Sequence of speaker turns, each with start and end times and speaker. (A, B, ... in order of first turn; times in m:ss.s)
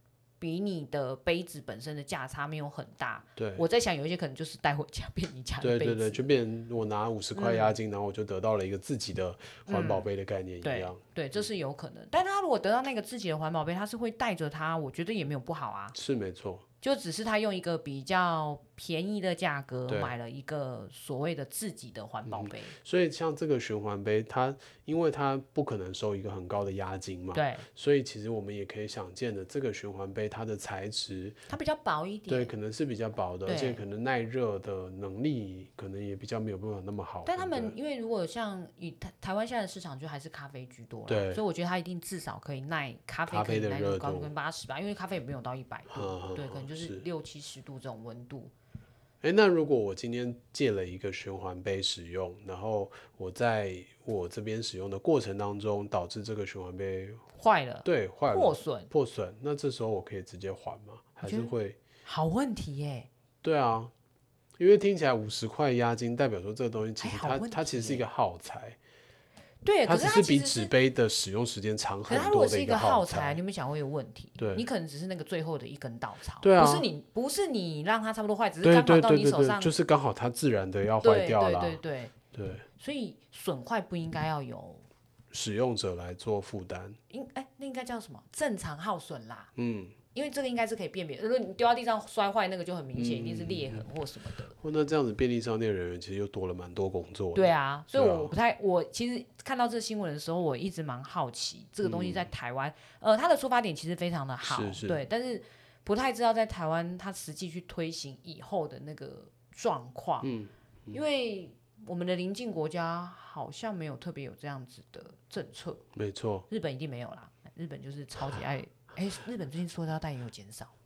0:00.4-0:06.3 A
0:03.4-0:03.7 B
0:05.6-0:11.4 B
0:07.4-0:07.8 A
0:09.7-0:10.1 A
0:10.6-0:16.0 A
0:15.9-0:16.6 B
0:16.8-0:22.8 A
0:19.9-0:20.2 B
0:22.3-0:31.4 B
0:27.3-0:27.6 A
0:31.5-0:32.5 A
0:32.3-0:37.8 B
0:33.5-0:33.8 A
0:37.2-0:48.5 A
0:41.1-0:41.4 B
0:43.3-0:44.3 B
0:45.9-0:47.0 B
0:49.2-0:57.2 B
0:57.4-0:58.9 A
0:57.8-1:01.8 B
1:01.2-1:03.1 A
1:03.4-1:03.9 B
1:04.6-1:08.8 B
1:07.0-1:08.1 A
1:09.6-1:10.7 A
1:09.8-1:13.4 B
1:12.1-1:19.7 A
1:14.4-1:14.7 B
1:16.4-1:16.9 B
1:18.6-1:21.8 B
1:21.0-1:22.2 A
1:22.3-1:22.6 B
1:22.8-1:24.9 A
1:25.3-1:27.0 B
1:27.1-1:29.5 A
1:29.6-1:30.0 B
1:30.1-1:34.6 A
1:33.0-1:33.9 B
1:34.6-1:38.3 B
1:37.3-1:50.3 A
1:41.8-1:42.3 B
1:44.4-1:45.0 B
1:50.2-1:51.0 B
1:50.9-1:55.8 A
1:55.9-1:56.5 B
1:56.5-2:00.7 A